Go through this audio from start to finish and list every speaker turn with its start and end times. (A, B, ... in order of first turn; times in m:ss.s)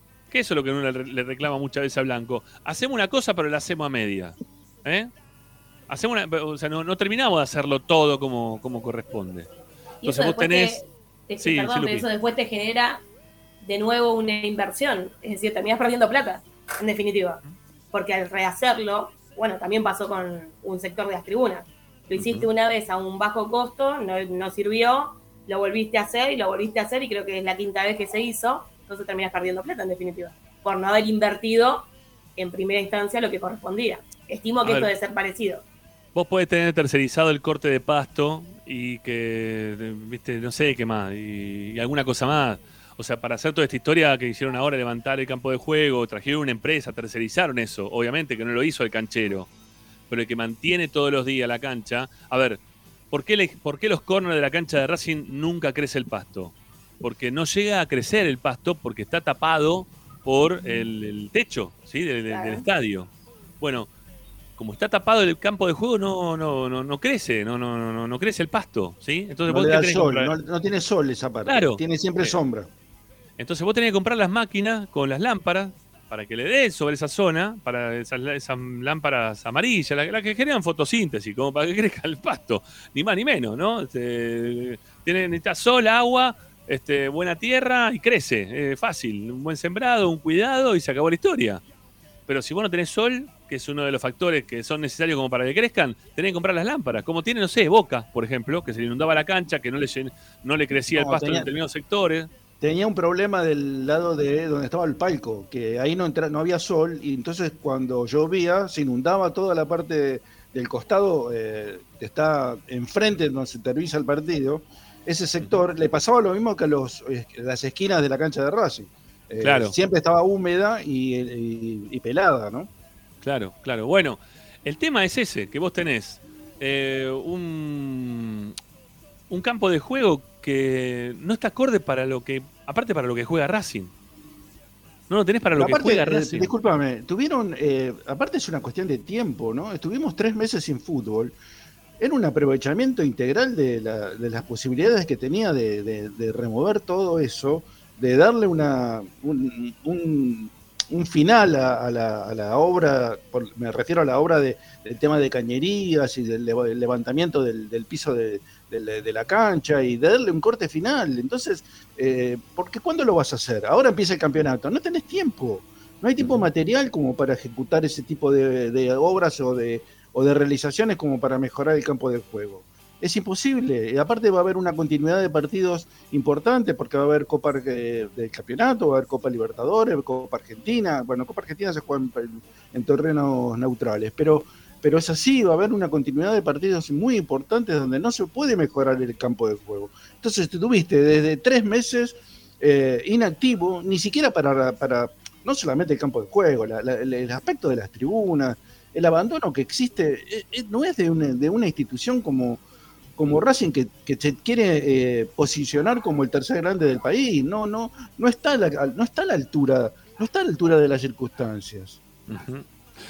0:00.3-0:05.1 A
0:05.9-0:09.5 A
0:10.0-0:13.0 B
0:10.0-0:10.8 A
0:11.4-0:12.0 A
0:13.6-0:17.4 B
0:17.9-0:35.6 B
0:22.2-0:22.5 A
0:34.6-0:34.9 A
0:36.1-0:49.5 A
0:50.1-1:03.9 A
1:02.3-1:02.6 B
1:04.6-1:10.3 A
1:09.5-1:12.7 C
1:11.4-1:12.4 A
1:13.4-1:31.6 A
1:32.3-1:42.3 A
1:40.9-1:41.5 C
1:42.6-2:02.7 C
1:59.4-1:59.7 A
2:03.2-2:08.5 A
2:09.3-2:13.9 A
2:15.1-2:16.5 A
2:15.6-2:21.3 C
2:22.0-3:22.6 C
2:46.2-2:46.5 A
3:23.2-3:32.0 C
3:32.3-3:32.6 A